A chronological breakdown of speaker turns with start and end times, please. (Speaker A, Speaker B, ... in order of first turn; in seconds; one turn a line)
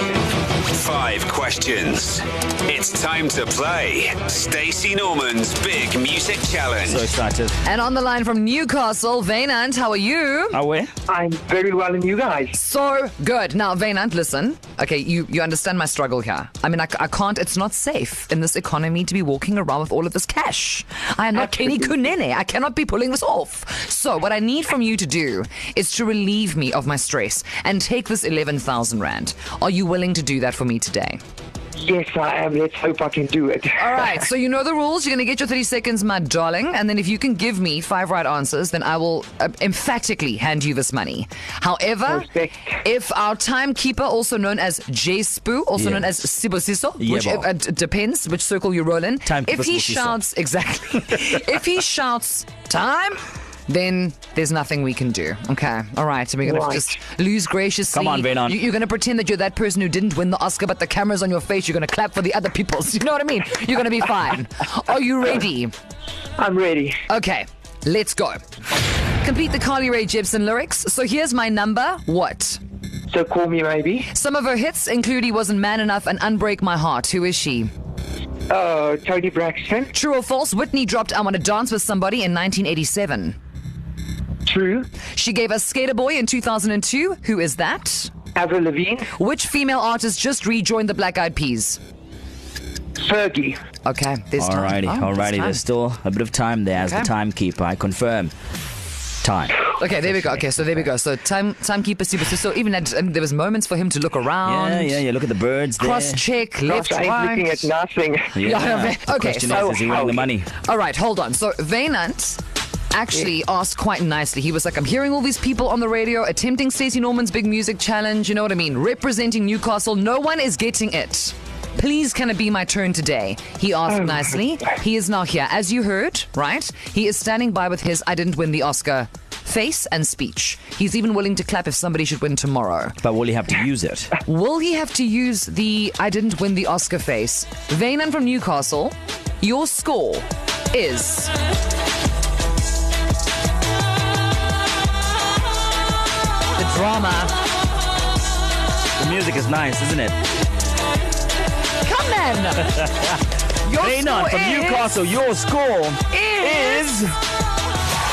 Speaker A: 0.6-7.0
Speaker B: 6.9-7.5
Speaker C: 7.6-10.6
Speaker B: 10.5-10.9
Speaker D: 11.1-12.6
Speaker C: 12.5-31.2
Speaker D: 21.4-22.0
Speaker D: 31.8-34.2
Speaker C: 33.8-42.3
Speaker D: 42.0-42.8
Speaker C: 42.8-65.7
Speaker B: 45.8-46.1
Speaker B: 47.0-47.5
Speaker B: 49.2-50.2
Speaker D: 56.4-56.9
Speaker B: 57.9-58.6
Speaker D: 66.4-67.0
Speaker C: 67.1-68.4
Speaker C: 69.2-72.6
Speaker D: 73.1-74.1
Speaker C: 74.1-77.7
Speaker D: 78.5-79.9
Speaker C: 79.9-83.4
Speaker D: 84.5-84.9
Speaker C: 85.1-88.1
Speaker D: 88.3-89.1
Speaker C: 89.1-91.8
Speaker D: 93.0-93.6
Speaker C: 93.8-95.6
Speaker B: 94.4-98.3
Speaker C: 96.8-97.1
Speaker B: 99.2-99.7
Speaker C: 99.8-105.0
Speaker B: 104.4-106.2
Speaker C: 105.8-107.7
Speaker D: 106.7-108.4
Speaker B: 108.3-110.5
Speaker C: 108.4-109.7
Speaker D: 109.5-110.3
Speaker C: 110.6-112.4
Speaker C: 112.9-133.0
Speaker B: 133.0-134.1
Speaker C: 134.2-141.3
Speaker C: 146.6-147.3
Speaker B: 149.0-150.2
Speaker C: 151.8-152.9
Speaker C: 153.6-154.9
Speaker B: 153.8-157.1
Speaker C: 156.1-156.8